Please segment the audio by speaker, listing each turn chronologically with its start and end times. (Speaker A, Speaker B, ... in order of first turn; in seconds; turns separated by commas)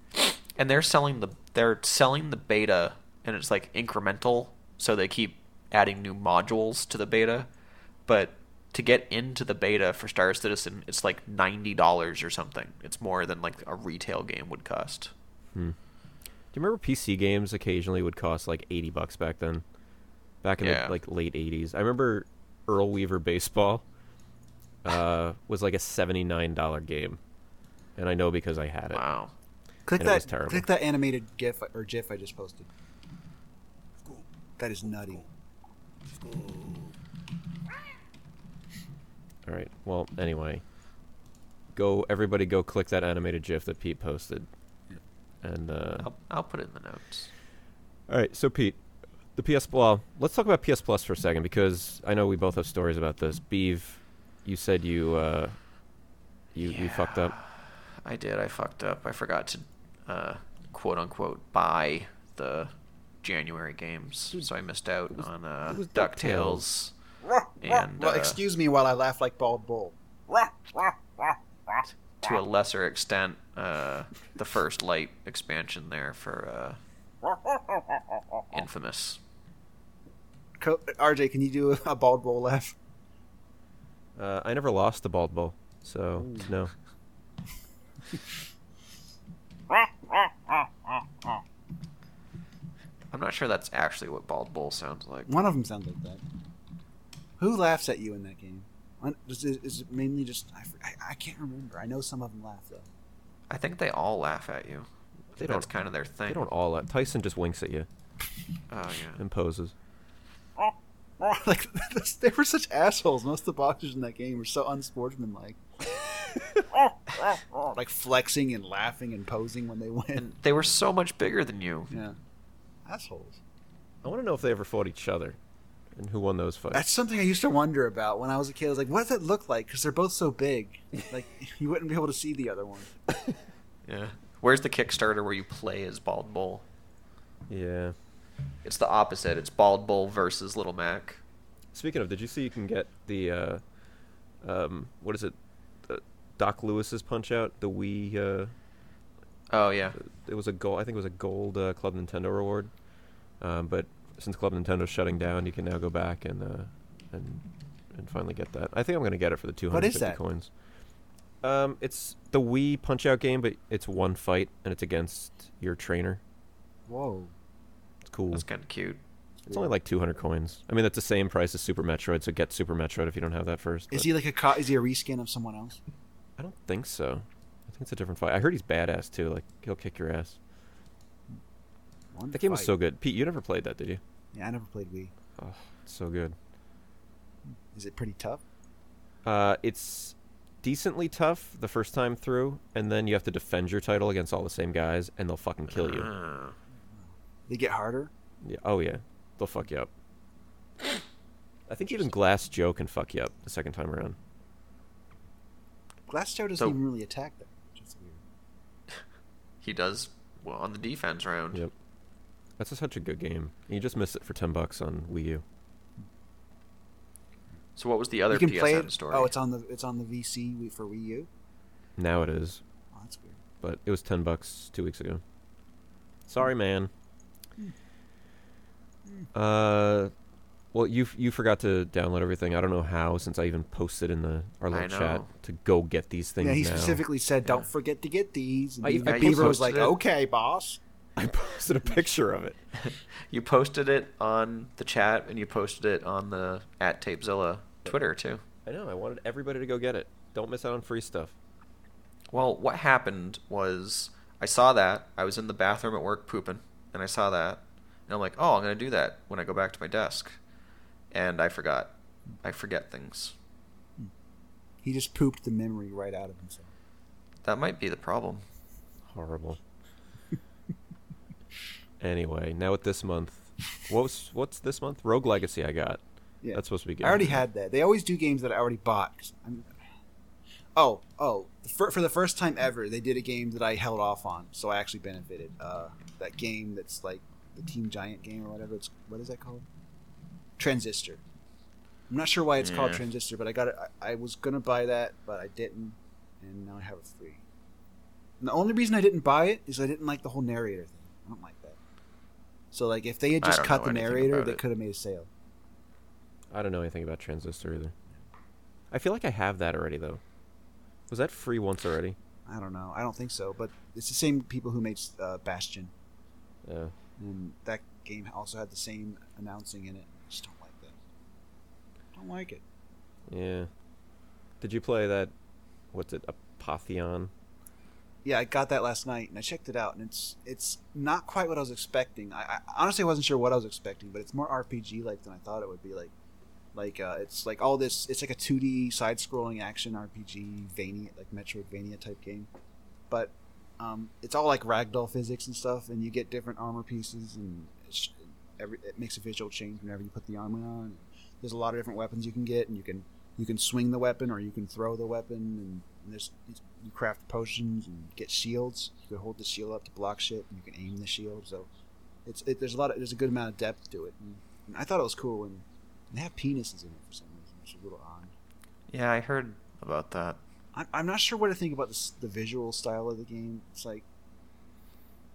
Speaker A: 0.4-7.5, Speaker A: 8.1-15.1, Speaker B: 16.5-19.6, Speaker B: 20.4-23.8, Speaker A: 20.6-20.9, Speaker B: 24.8-27.2, Speaker B: 28.0-29.0, Speaker A: 28.9-29.3, Speaker C: 29.9-32.7, Speaker B: 30.0-30.7, Speaker C: 34.6-35.3, Speaker B: 39.5-40.6, Speaker B: 41.7-44.5, Speaker B: 45.4-46.1, Speaker A: 46.0-47.3, Speaker B: 48.1-48.8, Speaker B: 49.4-55.6, Speaker B: 56.5-57.4, Speaker A: 56.6-62.7, Speaker A: 63.2-66.9, Speaker B: 65.1-66.6, Speaker A: 67.6-68.4, Speaker C: 67.7-71.7, Speaker A: 72.2-76.8, Speaker C: 77.5-77.8, Speaker A: 78.5-79.2, Speaker C: 80.6-82.8, Speaker B: 84.2-86.7, Speaker C: 86.2-86.5, Speaker C: 89.7-91.4, Speaker A: 93.1-95.3, Speaker C: 95.3-96.2, Speaker C: 97.4-102.9, Speaker A: 103.5-106.5, Speaker B: 105.4-105.7, Speaker B: 106.3-107.9, Speaker A: 108.7-109.2, Speaker B: 109.2-109.7, Speaker C: 110.6-115.6, Speaker C: 116.7-120.2, Speaker A: 120.2-121.9, Speaker C: 121.9-122.2, Speaker C: 122.8-123.4, Speaker B: 124.0-125.4, Speaker B: 125.9-126.9, Speaker C: 126.7-132.9, Speaker A: 133.9-136.6, Speaker B: 137.5-137.9, Speaker A: 138.6-141.2, Speaker B: 141.7-143.6, Speaker B: 144.4-148.5, Speaker A: 149.5-150.0, Speaker B: 149.9-152.7, Speaker B: 153.4-160.5, Speaker C: 159.7-160.2, Speaker B: 161.4-166.2, Speaker C: 166.9-167.3, Speaker B: 168.1-168.4, Speaker A: 168.3-169.0, Speaker B: 169.5-174.1, Speaker C: 173.9-175.8, Speaker B: 176.4-180.4, Speaker C: 182.1-182.7, Speaker B: 182.3-184.0, Speaker C: 184.3-185.1, Speaker B: 185.4-186.4, Speaker C: 187.7-188.4, Speaker B: 189.2-196.1, Speaker A: 195.7-196.6, Speaker C: 197.5-198.1, Speaker B: 198.4-199.9, Speaker B: 201.7-204.2, Speaker C: 206.1-208.2, Speaker A: 209.6-211.6, Speaker B: 212.6-215.4, Speaker A: 217.8-219.3, Speaker C: 218.3-221.3, Speaker B: 222.0-222.6, Speaker C: 222.9-223.4, Speaker B: 223.6-225.2, Speaker B: 226.3-226.9, Speaker B: 229.3-230.1, Speaker B: 230.7-237.0, Speaker A: 234.7-235.3, Speaker C: 236.4-240.8, Speaker B: 238.8-239.9, Speaker A: 239.0-240.0, Speaker B: 241.2-242.6, Speaker A: 242.8-248.4, Speaker B: 248.7-251.3, Speaker A: 252.3-260.4, Speaker A: 261.1-261.9, Speaker A: 262.4-263.4, Speaker C: 264.8-266.7, Speaker A: 267.4-268.4, Speaker B: 269.1-269.6, Speaker B: 272.0-276.0, Speaker C: 276.4-279.8, Speaker B: 276.5-277.4, Speaker C: 280.8-289.7, Speaker C: 290.6-291.2, Speaker C: 292.1-297.4, Speaker A: 292.6-293.0, Speaker C: 298.4-301.8, Speaker C: 302.7-305.3, Speaker A: 303.4-304.6, Speaker B: 306.5-307.9, Speaker B: 308.9-310.2, Speaker B: 311.1-312.2, Speaker C: 312.5-315.9, Speaker B: 316.6-316.9, Speaker C: 317.2-321.0, Speaker C: 322.1-322.6, Speaker B: 323.3-323.7, Speaker B: 324.6-325.3, Speaker B: 325.9-327.3, Speaker C: 328.2-336.1, Speaker C: 336.7-342.5, Speaker C: 343.1-361.7, Speaker C: 362.2-368.3, Speaker A: 368.9-370.4, Speaker C: 370.7-374.1